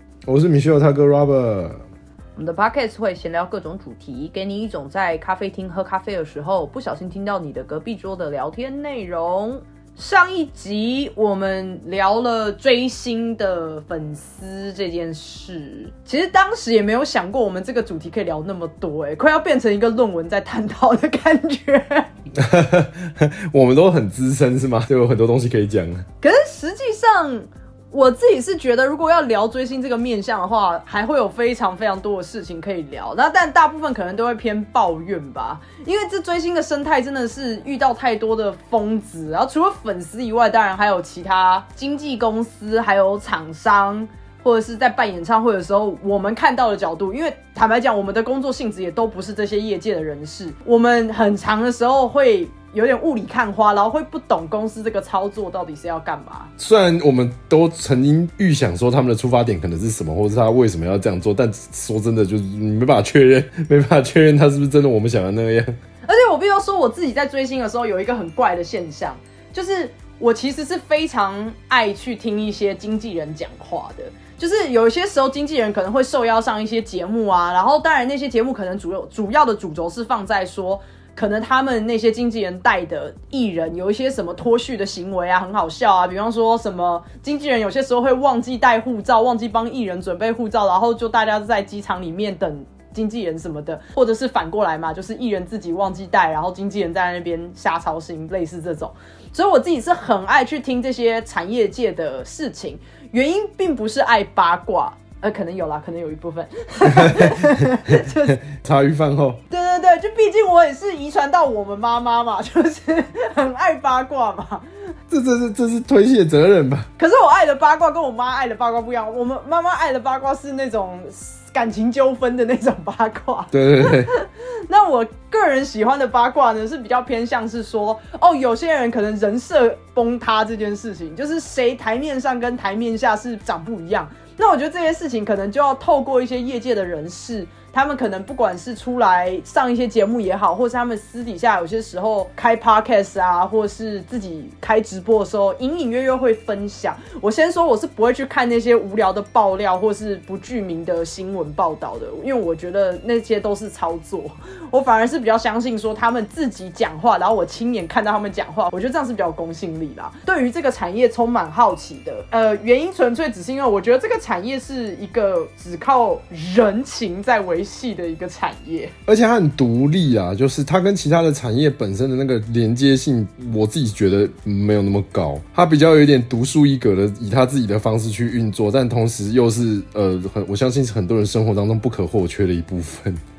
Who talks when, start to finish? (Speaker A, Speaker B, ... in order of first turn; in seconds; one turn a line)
Speaker A: 0.3-1.8
Speaker B: 2.4-22.1
Speaker A: 22.3-26.0
Speaker B: 26.2-56.5
Speaker A: 56.6-65.7
Speaker B: 66.0-108.4
Speaker A: 106.9-109.4
Speaker B: 109.5-114.6
Speaker A: 115.1-116.9
Speaker B: 117.0-168.9
Speaker A: 123.5-124.1
Speaker A: 169.1-183.2